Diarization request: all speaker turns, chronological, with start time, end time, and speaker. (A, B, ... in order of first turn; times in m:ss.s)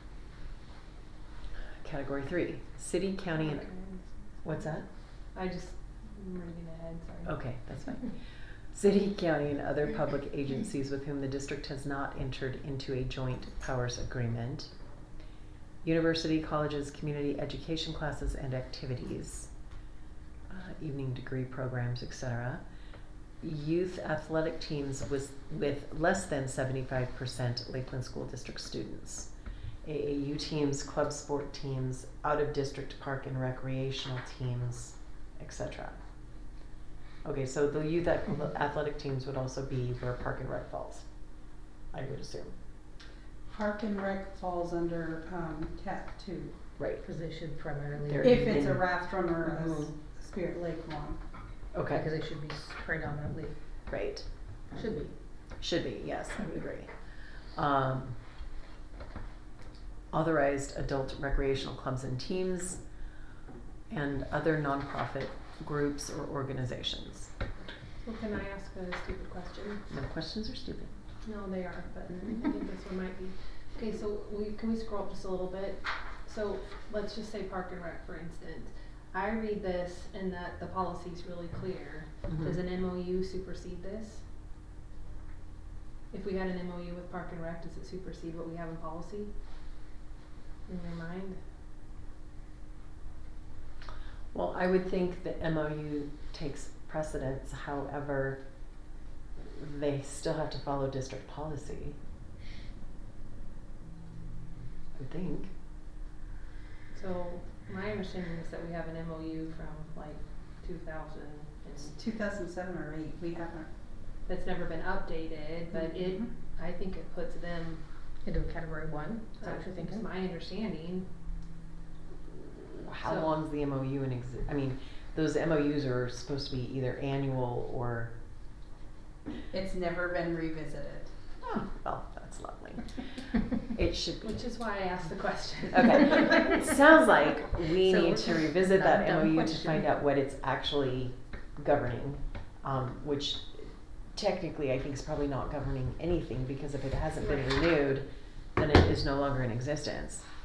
0:01.8-0:03.7 A
0:03.4-0:04.1 B
0:04.4-0:04.9 A
0:05.3-0:07.3 B
0:07.2-0:08.2 A
0:08.7-0:14.7 A
0:15.8-0:19.5 A
0:20.5-0:22.6 A
0:23.4-0:29.3 A
0:29.8-0:36.0 A
0:37.2-0:41.1 A
0:41.9-0:42.5 A
0:43.5-0:46.5 C
0:46.8-0:47.1 A
0:47.0-0:48.7 D
0:48.1-0:48.9 A
0:48.2-0:51.2 C
0:49.4-0:49.9 A
0:51.7-0:52.1 A
0:51.9-0:53.6 D
0:53.9-0:54.3 A
0:54.7-0:55.1 D
0:55.6-0:56.9 A
0:57.6-0:58.2 A
1:00.1-1:02.8 A
1:03.9-1:07.3 A
1:08.0-1:09.8 B
1:09.9-1:10.9 A
1:11.2-1:24.2 B
1:22.3-1:22.6 A
1:26.1-1:29.3 B
1:30.7-1:31.4 B
1:34.3-1:38.4 A
1:39.5-1:42.0 A
1:45.0-1:45.5 A
1:46.9-1:52.0 B
1:52.0-1:53.7 C
1:54.3-1:57.8 B
1:55.9-1:56.3 C
1:58.2-2:00.1 D
1:59.4-2:01.1 B
2:02.8-2:08.1 A
2:03.0-2:03.3 B
2:09.5-2:11.1 C
2:11.4-2:13.0 A
2:13.6-2:14.5 A
2:14.2-2:16.5 B
2:15.7-2:30.2 A
2:17.8-2:19.9 D
2:27.2-2:27.5 B